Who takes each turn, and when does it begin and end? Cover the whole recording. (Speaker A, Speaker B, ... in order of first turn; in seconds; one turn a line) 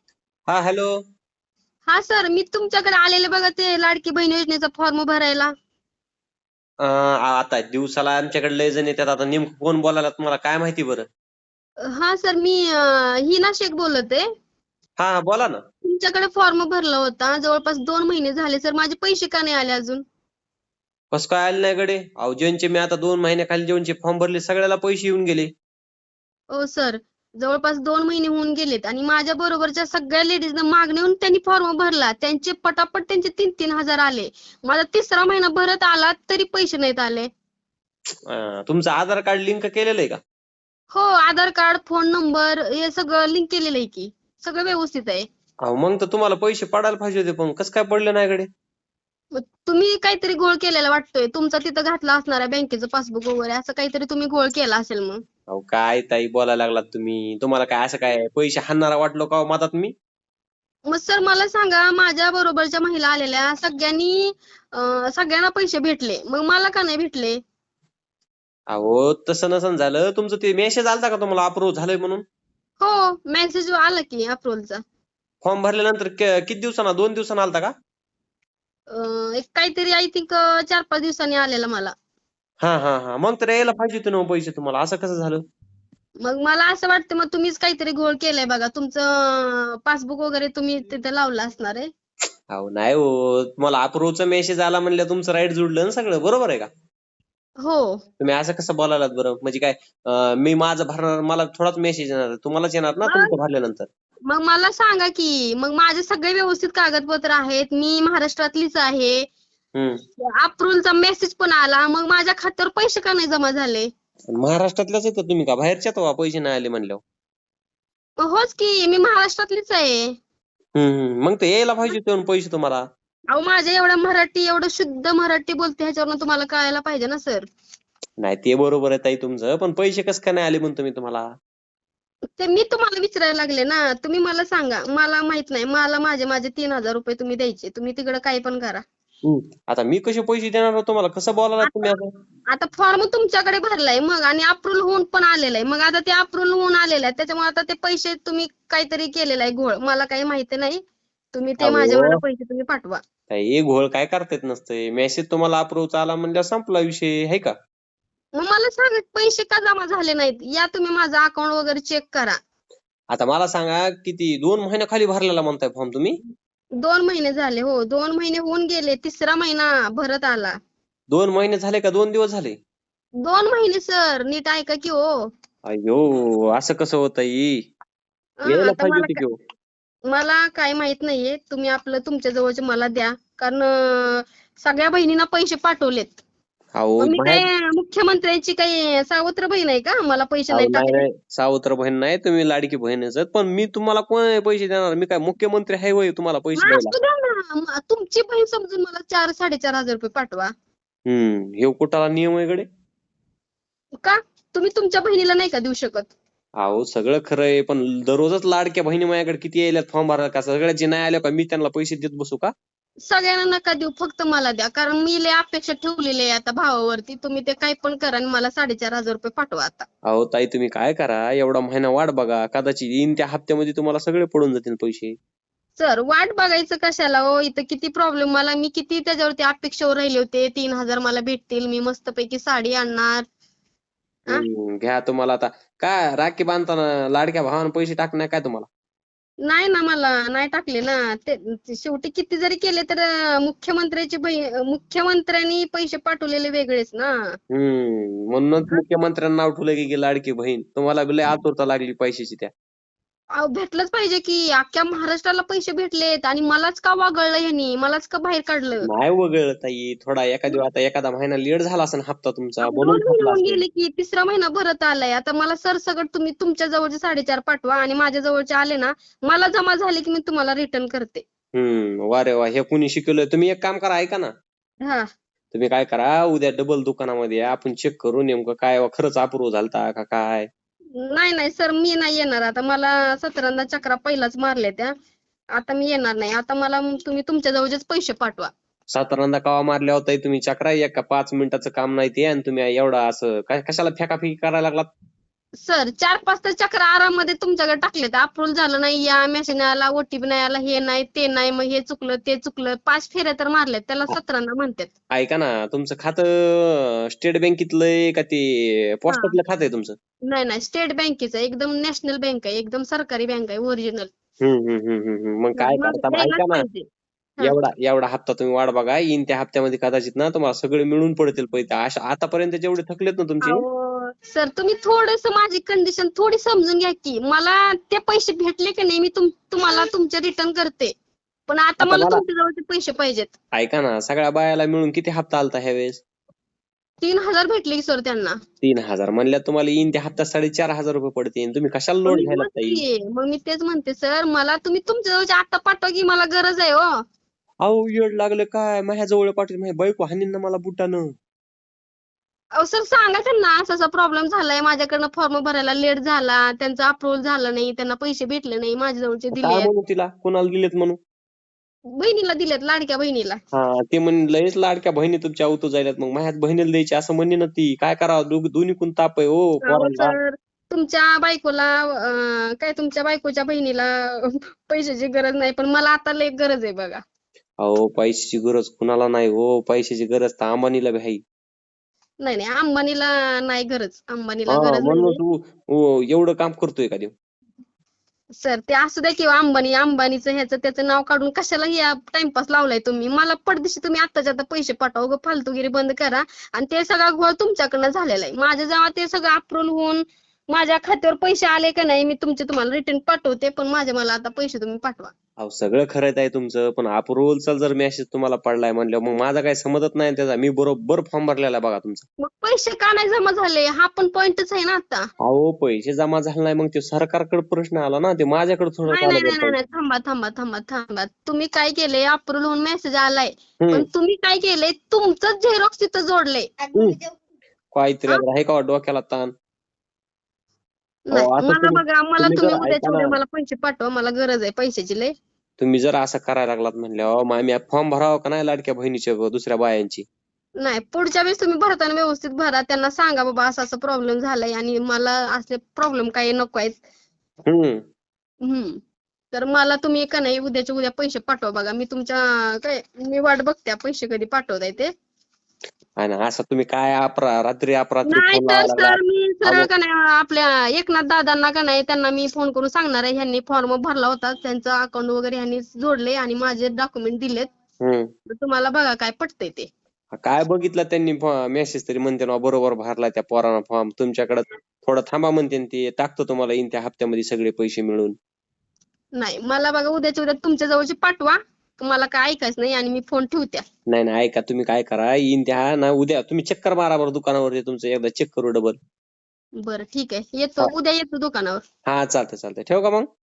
Speaker A: 0.5-0.9
Speaker B: 1.9-5.5
Speaker A: 6.8-11.0
Speaker B: 11.9-14.2
Speaker A: 15.0-15.6
Speaker B: 15.8-20.0
Speaker A: 21.1-25.5
Speaker B: 26.5-37.3
Speaker A: 38.3-40.2
Speaker B: 40.9-45.2
Speaker A: 45.6-48.5
Speaker B: 49.3-55.2
Speaker A: 55.5-59.9
Speaker B: 60.9-67.4
Speaker A: 68.7-72.2
Speaker B: 72.8-74.8
Speaker A: 75.4-77.7
Speaker B: 78.9-81.9
Speaker A: 82.6-85.4
Speaker B: 86.2-91.9
Speaker A: 92.5-96.7
Speaker B: 97.6-98.0
Speaker A: 98.2-103.9
Speaker B: 103.0-103.3
Speaker B: 104.3-109.3
Speaker B: 110.3-113.9
Speaker A: 114.4-117.0
Speaker B: 118.2-120.1
Speaker A: 120.8-122.8
Speaker B: 123.3-127.5
Speaker A: 128.2-131.3
Speaker B: 132.4-138.8
Speaker A: 139.2-142.1
Speaker B: 141.6-141.9
Speaker B: 142.5-150.8
Speaker B: 151.3-153.0
Speaker A: 151.6-152.2
Speaker A: 153.3-157.5
Speaker B: 158.3-162.4
Speaker A: 163.1-166.2
Speaker B: 166.8-170.6
Speaker A: 171.1-172.6
Speaker B: 173.2-175.3
Speaker A: 175.7-177.6
Speaker B: 178.4-179.2
Speaker A: 178.4-179.4
Speaker B: 180.1-186.2
Speaker A: 186.7-187.4
Speaker B: 187.0-191.0
Speaker A: 190.5-196.9
Speaker B: 196.6-200.5
Speaker A: 201.1-202.7
Speaker B: 204.0-206.1
Speaker A: 206.6-212.5
Speaker B: 213.1-219.9
Speaker A: 220.1-225.1
Speaker B: 225.8-233.2
Speaker A: 234.3-238.7
Speaker B: 239.4-247.4
Speaker A: 247.5-252.5
Speaker B: 253.3-258.9
Speaker A: 258.8-263.6
Speaker B: 262.6-271.2
Speaker A: 271.5-274.3
Speaker A: 275.5-280.5
Speaker B: 281.0-284.9
Speaker B: 285.6-288.5
Speaker A: 288.9-294.9
Speaker B: 295.6-304.9
Speaker A: 305.1-309.9
Speaker B: 309.1-309.3
Speaker B: 310.3-314.1
Speaker A: 314.4-316.6
Speaker B: 315.6-316.9
Speaker A: 317.4-323.6
Speaker B: 323.4-330.9
Speaker B: 331.5-333.3
Speaker A: 331.8-332.2
Speaker A: 333.5-336.0
Speaker B: 337.0-338.4
Speaker A: 338.6-342.8
Speaker B: 342.1-346.9
Speaker A: 347.6-351.1
Speaker B: 352.6-359.7
Speaker A: 359.3-361.0
Speaker B: 361.9-363.4
Speaker A: 363.5-370.1
Speaker B: 369.6-377.0
Speaker A: 377.6-381.2
Speaker B: 382.2-385.2
Speaker A: 384.5-387.1
Speaker B: 388.4-405.1
Speaker A: 405.4-412.1
Speaker B: 412.2-415.1
Speaker A: 415.2-419.6
Speaker B: 418.9-426.7
Speaker A: 423.6-423.9
Speaker A: 427.7-429.3
Speaker B: 431.1-435.1
Speaker A: 431.1-433.1
Speaker A: 435.6-440.0
Speaker B: 440.6-446.8
Speaker A: 447.5-447.8
Speaker B: 448.4-448.8
Speaker B: 449.3-454.9
Speaker A: 456.0-459.7
Speaker B: 458.1-467.5
Speaker A: 467.8-468.1
Speaker B: 468.3-469.7
Speaker A: 470.2-478.1
Speaker B: 479.1-483.6
Speaker A: 483.9-488.8
Speaker B: 489.6-491.6
Speaker A: 491.9-493.1